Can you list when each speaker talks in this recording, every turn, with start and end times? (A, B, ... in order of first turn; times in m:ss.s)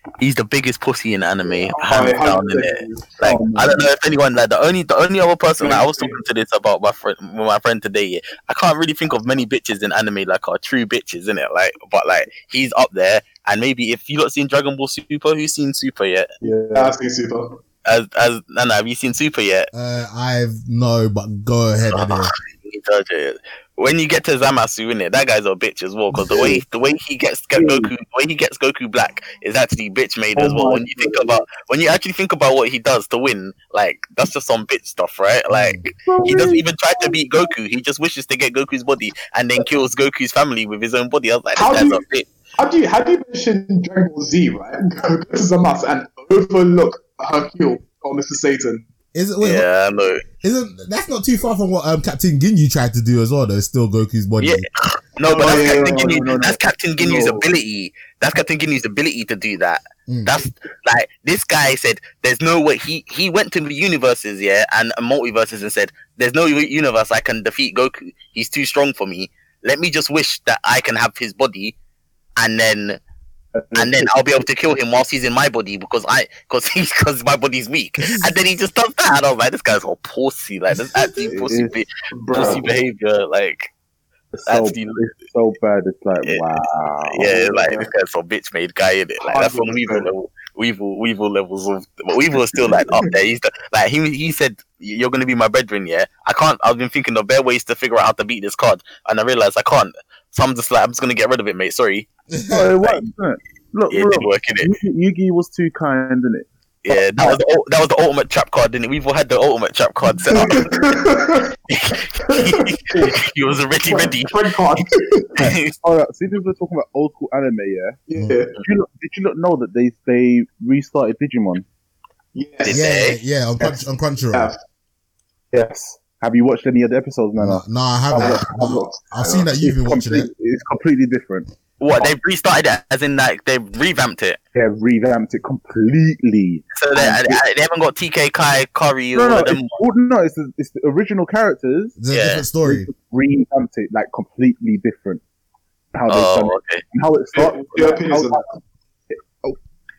0:00.2-0:16.3 A
0:01.7-0:03.7 B
0:03.4-0:03.8 C
0:05.6-0:06.2 B
0:16.4-0:17.0 C
0:16.7-0:17.6 B
0:17.8-0:19.7 A
0:19.7-0:22.3 D
0:21.9-0:42.3 A
0:26.1-0:26.6 C
0:27.6-0:27.9 C
0:30.4-0:31.4 C
0:35.5-0:35.8 D
0:36.1-0:37.4 C
0:41.6-0:42.0 B
0:42.6-0:48.9 B
0:49.1-0:49.7 D
0:49.4-0:50.2 A
0:50.4-0:54.7 D
0:54.4-1:11.8 A
0:55.2-0:57.5 C
0:55.4-0:56.2 B
1:12.4-1:13.0 A
1:13.6-1:14.1 C
1:13.8-1:23.7 A
1:18.0-1:18.4 D
1:21.2-1:21.8 C
1:22.1-1:22.7 B
1:22.3-1:22.8 C
1:24.3-1:27.7 C
1:24.5-1:25.1 A
1:26.2-1:42.1 A
1:27.5-1:27.9 B
1:29.2-1:30.1 B
1:32.6-1:33.1 B
1:42.3-1:42.8 D
1:42.5-1:47.4 C
1:42.8-1:43.1 A
1:43.9-1:44.7 A
1:46.8-1:50.8 A
1:50.3-1:51.6 B
1:51.7-1:54.3 A
1:52.2-1:53.2 B
1:53.8-1:55.5 B
1:55.4-1:55.7 A
1:55.8-1:58.0 C
1:58.1-1:58.5 B
1:58.6-2:01.6 C
2:02.4-2:03.1 B
2:02.6-2:03.2 A
2:02.7-2:04.5 D
2:03.6-2:04.6 B
2:05.5-2:08.5 C
2:07.4-2:10.3 D
2:08.1-2:09.5 B
2:09.6-2:11.5 C
2:11.8-2:14.4 A
2:14.6-2:17.4 C
2:16.8-2:19.8 A
2:19.2-2:22.0 C
2:22.0-2:22.9 D
2:22.1-2:22.5 A
2:22.6-2:25.2 C
2:25.9-2:28.5 C
2:26.1-2:26.8 A
2:27.3-2:28.6 B